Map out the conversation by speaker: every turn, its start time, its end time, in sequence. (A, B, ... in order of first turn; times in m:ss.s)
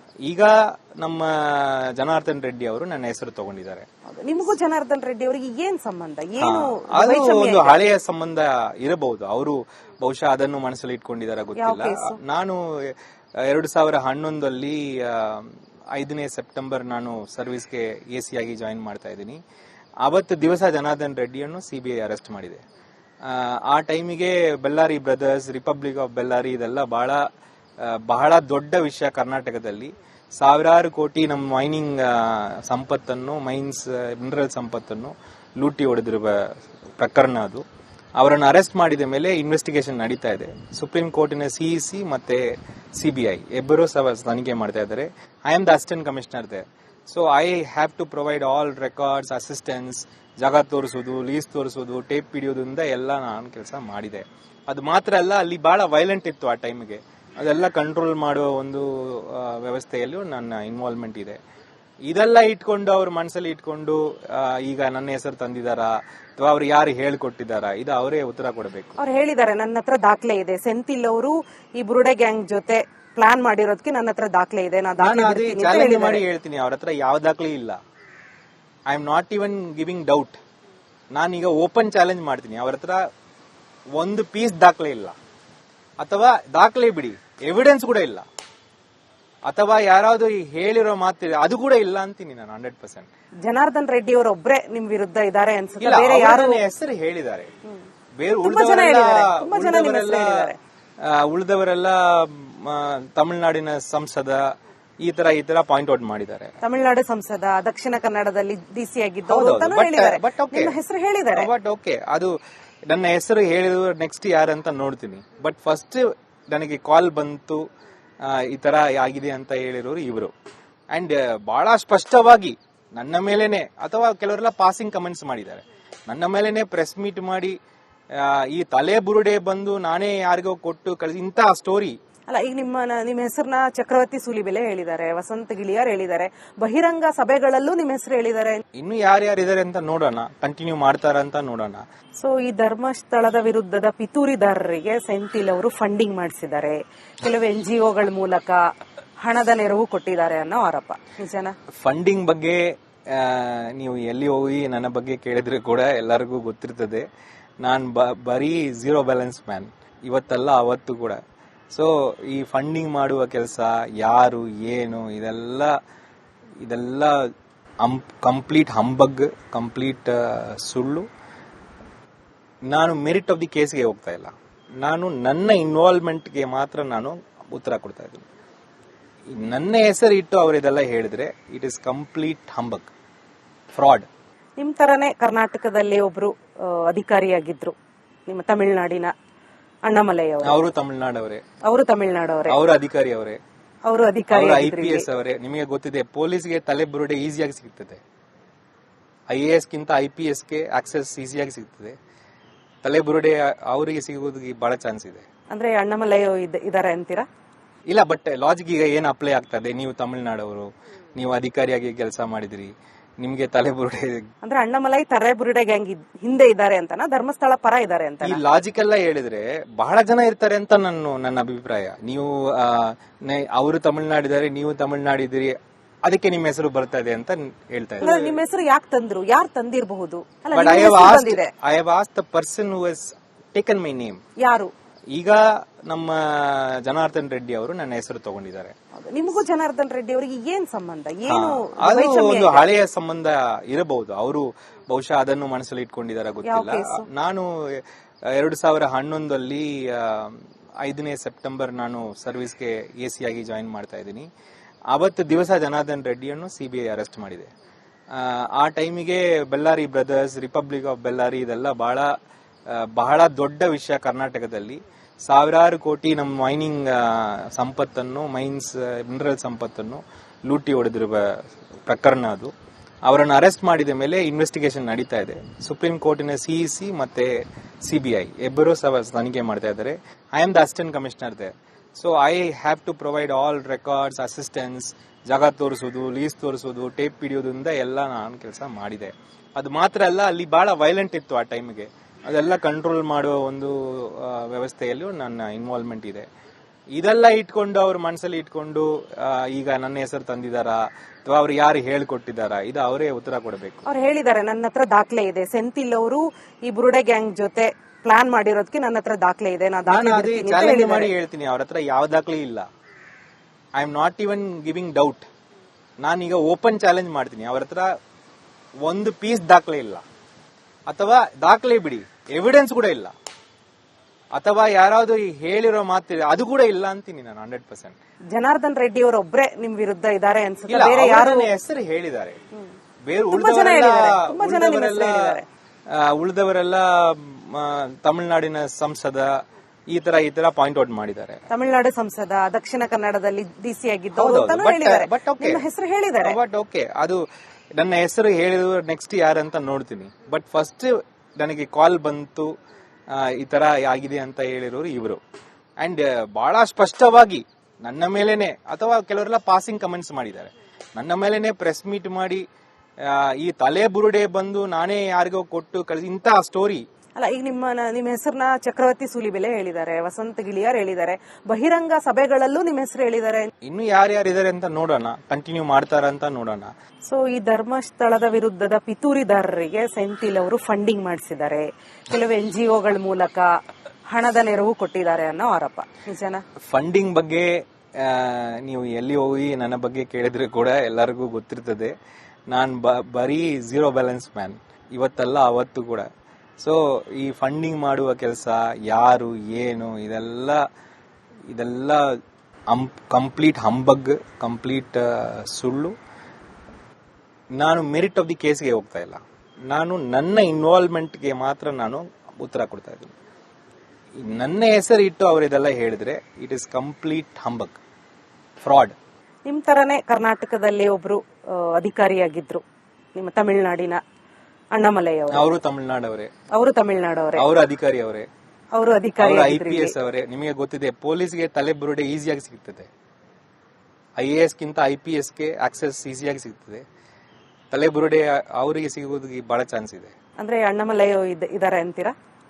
0:00.2-0:03.8 A
0:04.1-0:07.7 B
0:06.4-0:19.4 A
0:11.6-0:12.2 B
0:20.0-0:22.6 A
0:23.2-0:27.2 A
0:27.8-0:36.4 A
0:37.0-0:37.6 A
0:38.2-0:42.4 A
0:43.0-1:01.4 A
1:02.1-1:09.0 A
1:09.0-1:16.2 B
1:15.0-1:17.8 A
1:18.9-1:20.4 A
1:21.1-1:23.1 A
1:24.0-1:25.1 A
1:26.0-1:28.3 A
1:29.5-1:33.1 A
1:33.4-1:36.6 B
1:35.8-1:37.5 A
1:38.2-1:40.5 A
1:38.4-1:40.6 B
1:41.0-1:44.4 A
1:45.0-1:46.5 A
1:46.6-1:51.5 B
1:49.2-1:50.7 A
1:51.3-1:52.3 A
1:52.9-1:57.6 A
1:58.2-2:00.3 A
2:00.9-2:07.6 A
2:08.2-2:12.0 A
2:12.3-2:18.6 B
2:18.7-2:21.8 A
2:22.2-2:28.6 B
2:29.2-2:31.5 B
2:31.8-2:37.0 A
2:37.6-2:41.2 A
2:41.7-2:45.7 A
2:46.6-2:47.3 A
2:47.8-2:51.1 A
2:52.7-2:58.2 A
2:59.3-3:02.9 A
3:03.7-3:04.1 A
3:04.6-3:07.7 B
3:08.3-3:09.1 B
3:09.8-3:10.6 B
3:10.4-3:11.4 A
3:11.6-3:12.6 B
3:12.5-3:13.4 A
3:13.8-3:15.0 B
3:14.3-3:18.0 A
3:19.3-3:22.0 A
3:22.8-3:25.2 A
3:25.5-3:27.3 B
3:27.9-3:34.2 A
3:34.4-3:38.4 B
3:38.2-3:48.4 A
3:48.0-3:51.5 B
3:50.5-3:54.2 A
3:54.4-3:54.7 B
3:55.1-3:58.7 A
3:59.0-4:02.6 B
4:01.3-4:14.3 A
4:06.4-4:07.0 B
4:14.9-4:17.5 A
4:18.1-4:22.1 A
4:22.7-4:31.3 A
4:31.8-4:32.5 A
4:33.1-4:37.3 A
4:37.8-4:56.3 A
4:57.0-5:03.8 A
5:03.8-5:11.1 B
5:09.9-5:12.6 A
5:13.8-5:15.3 A
5:16.0-5:17.9 A
5:18.8-5:20.0 A
5:20.9-5:23.1 A
5:24.4-5:28.0 A
5:28.3-5:31.5 B
5:30.7-5:32.4 A
5:33.1-5:35.4 A
5:33.3-5:35.4 B
5:35.9-5:39.3 A
5:39.9-5:41.4 A
5:41.5-5:46.4 B
5:44.2-5:45.6 A
5:46.2-5:47.2 A
5:47.8-5:52.5 A
5:53.1-5:55.2 A
5:55.8-6:02.4 A
6:03.0-6:06.8 A
6:07.2-6:13.5 B
6:13.6-6:16.7 A
6:17.1-6:26.4 B
6:26.6-6:31.9 A
6:32.5-6:36.1 A
6:36.6-6:40.6 A
6:41.5-6:42.2 A
6:42.7-6:45.9 A
6:47.5-6:53.1 A
6:54.2-6:57.8 A
6:58.6-6:59.0 A
6:59.4-7:02.6 B
7:03.1-7:04.0 B
7:04.7-7:05.4 B
7:05.3-7:06.3 A
7:06.5-7:07.4 B
7:07.4-7:08.3 A
7:08.7-7:09.9 B
7:09.2-7:12.9 A
7:14.2-7:16.8 A
7:17.7-7:20.1 A
7:20.4-7:22.1 B